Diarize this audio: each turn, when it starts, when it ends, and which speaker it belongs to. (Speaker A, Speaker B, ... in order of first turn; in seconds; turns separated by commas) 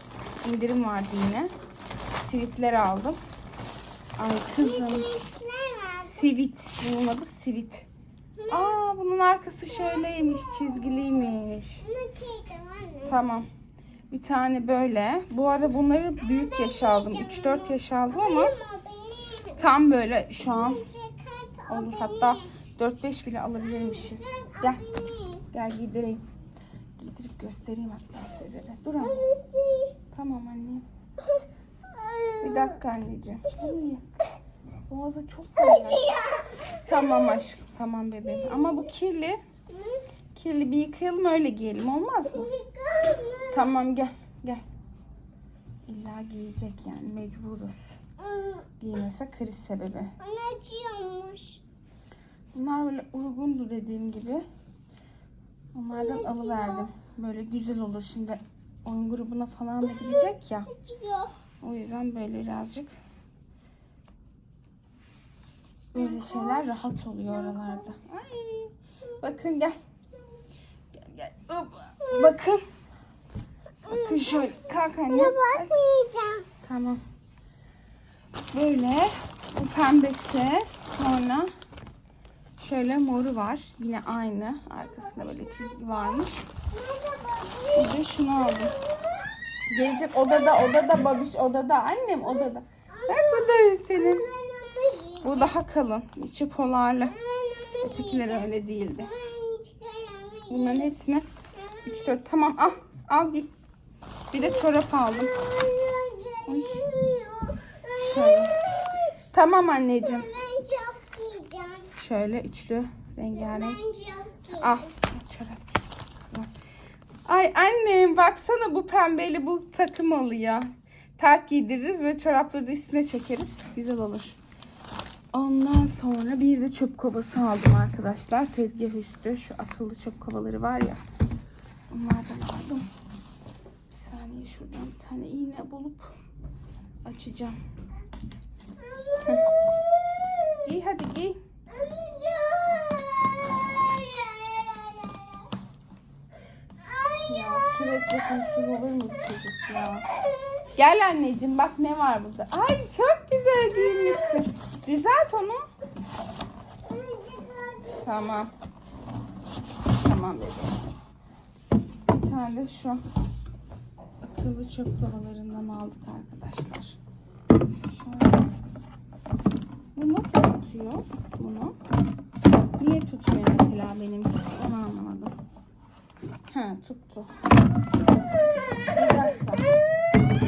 Speaker A: 0.4-1.5, Speaker A: 2.2-3.2, Speaker A: 4.2-5.1, Speaker B: 4.6-6.2, Speaker A: 6.1-7.9, Speaker B: 8.4-8.8, Speaker A: 8.5-11.8, Speaker B: 9.7-11.3, Speaker B: 11.8-13.2, Speaker A: 13.1-13.5, Speaker A: 14.1-18.5, Speaker B: 16.2-19.7, Speaker A: 19.6-20.8, Speaker B: 20.4-22.5, Speaker A: 21.7-24.8, Speaker B: 23.9-25.4, Speaker A: 25.5-26.2, Speaker A: 27.0-29.3, Speaker B: 29.0-30.0, Speaker A: 30.1-30.9, Speaker B: 31.2-32.8, Speaker A: 32.4-34.2, Speaker A: 34.9-36.0, Speaker B: 35.6-37.0, Speaker A: 36.9-39.4, Speaker B: 39.7-40.0, Speaker A: 40.4-42.5, Speaker B: 42.3-43.7, Speaker A: 43.5-44.6, Speaker A: 45.9-47.9, Speaker B: 48.2-48.7, Speaker A: 48.8-50.1, Speaker B: 50.2-51.6, Speaker A: 52.5-54.5, Speaker A: 55.7-60.7, Speaker B: 55.9-56.9, Speaker B: 59.9-61.3, Speaker A: 61.6-62.9, Speaker B: 65.9-68.1, Speaker A: 65.9-68.4, Speaker A: 69.2-69.8, Speaker A: 71.0-72.6, Speaker B: 73.9-76.5, Speaker A: 73.9-75.8, Speaker A: 76.6-77.0, Speaker A: 78.5-81.5, Speaker A: 82.6-86.4, Speaker B: 86.7-88.8, Speaker A: 87.8-88.7, Speaker A: 89.7-94.2, Speaker B: 92.9-95.6, Speaker A: 95.2-97.1, Speaker B: 97.1-100.9, Speaker A: 97.8-99.1, Speaker A: 100.5-101.2, Speaker B: 101.6-102.2, Speaker A: 101.9-103.5, Speaker A: 104.3-105.3, Speaker B: 105.3-108.9, Speaker A: 106.5-106.8, Speaker A: 108.0-108.5, Speaker A: 109.3-110.3, Speaker B: 110.0-111.9, Speaker A: 111.9-113.8, Speaker B: 113.4-114.9, Speaker A: 114.6-116.5, Speaker A: 117.3-124.4, Speaker A: 125.3-131.0, Speaker A: 131.9-132.9, Speaker A: 133.9-136.1, Speaker A: 137.1-137.6, Speaker B: 138.8-140.6, Speaker A: 140.6-141.4, Speaker B: 141.7-145.5, Speaker B: 146.8-147.7, Speaker A: 147.3-150.0, Speaker A: 150.8-155.7, Speaker B: 156.8-158.2, Speaker A: 158.0-158.5, Speaker A: 159.9-160.8, Speaker A: 162.1-163.0, Speaker A: 164.2-167.0, Speaker A: 167.8-168.5, Speaker A: 169.9-171.8, Speaker A: 172.8-175.3, Speaker A: 176.5-177.3, Speaker B: 178.8-179.7, Speaker A: 178.9-179.6